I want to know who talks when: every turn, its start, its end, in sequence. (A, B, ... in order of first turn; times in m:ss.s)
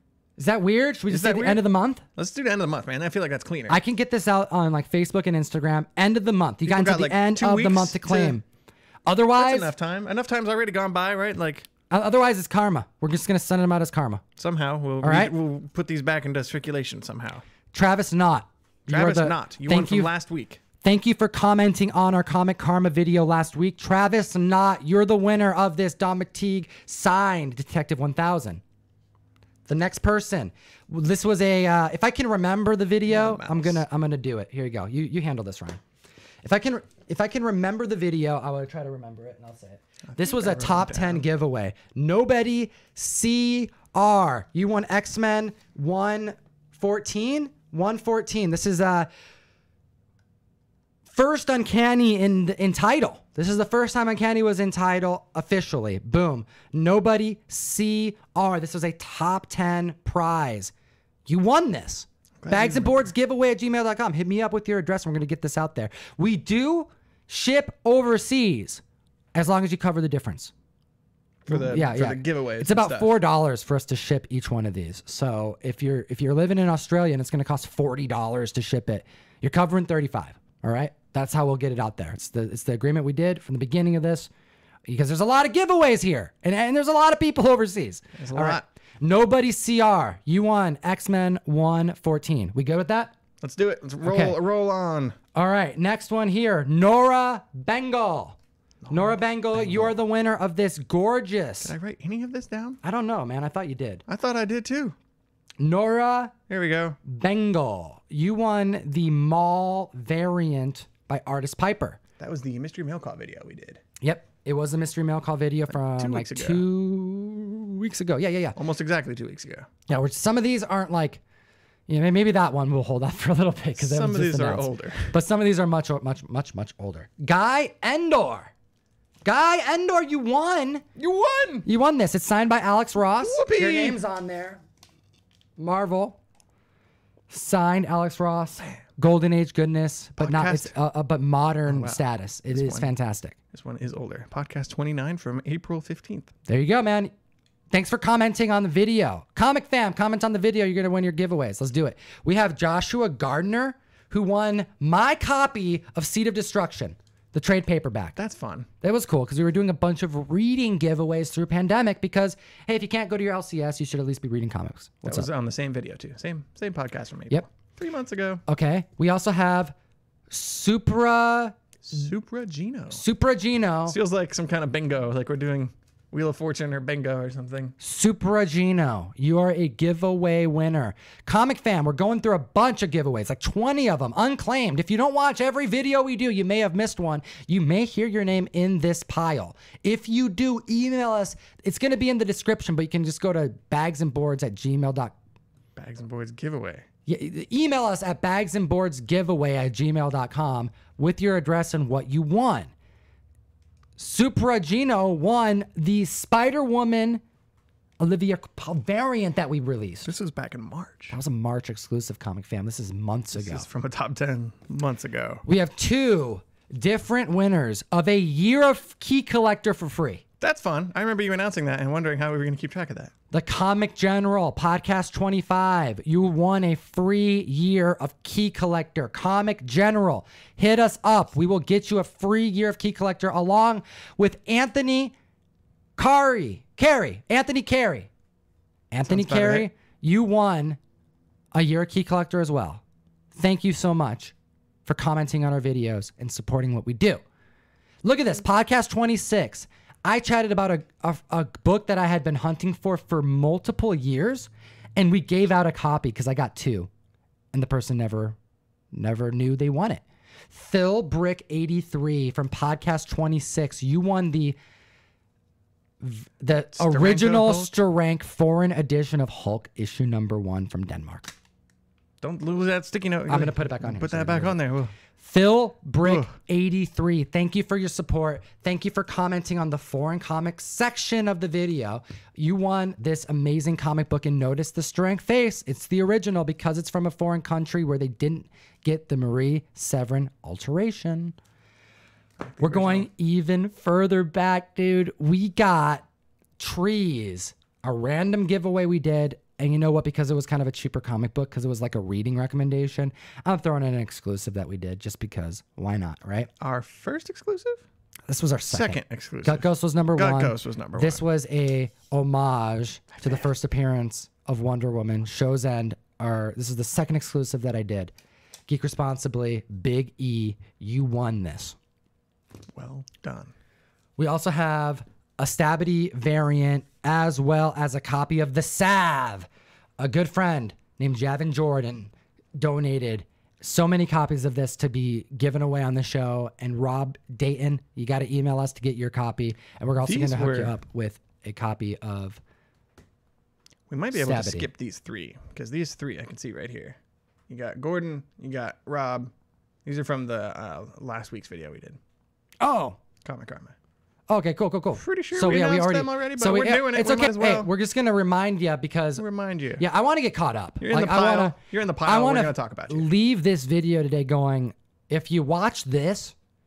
0:00.4-0:02.0 A
0:01.1-0:01.6 B
0:02.2-0:03.8 B
0:03.7-0:08.4 A
0:06.6-0:08.4 B
0:09.0-0:09.7 A
0:09.4-0:11.7 B
0:11.9-0:14.2 A
0:14.4-0:17.4 B
0:15.0-0:15.3 A
0:17.7-0:20.1 A
0:18.9-0:20.6 B
0:20.8-0:28.6 A
0:29.7-0:35.8 A
0:33.1-0:33.8 B
0:36.4-0:49.1 A
0:40.1-0:41.2 B
0:51.0-1:00.7 A
1:01.2-1:08.8 A
1:02.4-1:03.1 B
1:09.3-1:10.5 A
1:11.4-1:13.1 B
1:11.5-1:24.3 A
1:24.9-1:33.1 A
1:28.2-1:28.6 B
1:33.4-1:35.2 B
1:34.0-1:34.4 A
1:35.3-1:38.4 A
1:38.8-1:39.9 B
1:38.9-1:41.7 A
1:41.6-1:42.8 B
1:42.8-1:44.0 A
1:44.1-1:45.0 B
1:45.6-1:46.3 A
1:46.5-1:47.0 B
1:47.0-1:52.0 A
1:52.2-1:53.8 B
1:54.0-1:58.6 A
1:55.7-1:56.6 B
1:58.6-1:59.7 B
1:59.9-2:01.2 A
2:01.9-2:08.5 A
2:03.8-2:05.1 B
2:09.2-2:10.8 A
2:11.0-2:11.6 B
2:11.6-2:14.6 A
2:13.2-2:14.0 B
2:15.6-2:16.2 A
2:17.3-2:23.4 A
2:20.2-2:20.7 B
2:21.7-2:22.9 B
2:23.5-2:26.3 B
2:26.5-2:27.1 A
2:27.7-2:38.2 A
2:38.2-2:38.7 B
2:38.8-2:45.3 A
2:45.0-2:48.4 B
2:48.5-2:49.7 A
2:50.3-2:51.6 A
2:51.8-2:53.0 B
2:52.9-2:54.0 A
2:53.9-2:57.7 B
2:57.8-3:15.1 A
3:15.8-3:16.8 B
3:17.0-3:22.7 A
3:24.0-3:27.2 A
3:28.0-3:30.1 A
3:30.0-3:31.2 B
3:31.1-3:33.6 A
3:33.3-3:35.4 B
3:35.4-3:40.2 A
3:40.4-3:43.1 B
3:43.3-3:55.1 A
3:56.0-3:58.1 A
3:58.9-4:00.8 A
3:59.0-3:59.7 B
4:01.5-4:02.8 A
4:03.3-4:04.3 A
4:04.8-4:07.2 A
4:08.0-4:16.9 A
4:17.5-4:18.4 A
4:18.9-4:24.6 A
4:26.0-4:31.3 A
4:26.8-4:27.7 B
4:32.2-4:34.9 B
4:33.3-4:34.6 A
4:35.2-4:51.3 A
4:36.0-4:36.3 B
4:52.5-4:53.1 B
4:52.6-4:56.0 A
4:56.6-5:06.5 A
5:06.6-5:07.8 B
5:08.3-5:18.1 A
5:08.7-5:11.2 B
5:18.7-5:21.8 A
5:22.7-5:23.5 B
5:24.2-5:29.5 A
5:30.0-5:42.4 A
5:40.0-5:40.7 B
5:43.9-5:47.0 B
5:44.1-5:44.7 A
5:47.5-5:49.3 B
5:49.8-5:52.0 B
5:52.6-5:53.0 A
5:53.2-5:53.7 B
5:54.3-5:59.2 A
5:55.0-5:57.7 B
5:59.2-5:59.8 B
5:59.8-6:06.3 A
6:00.8-6:03.1 B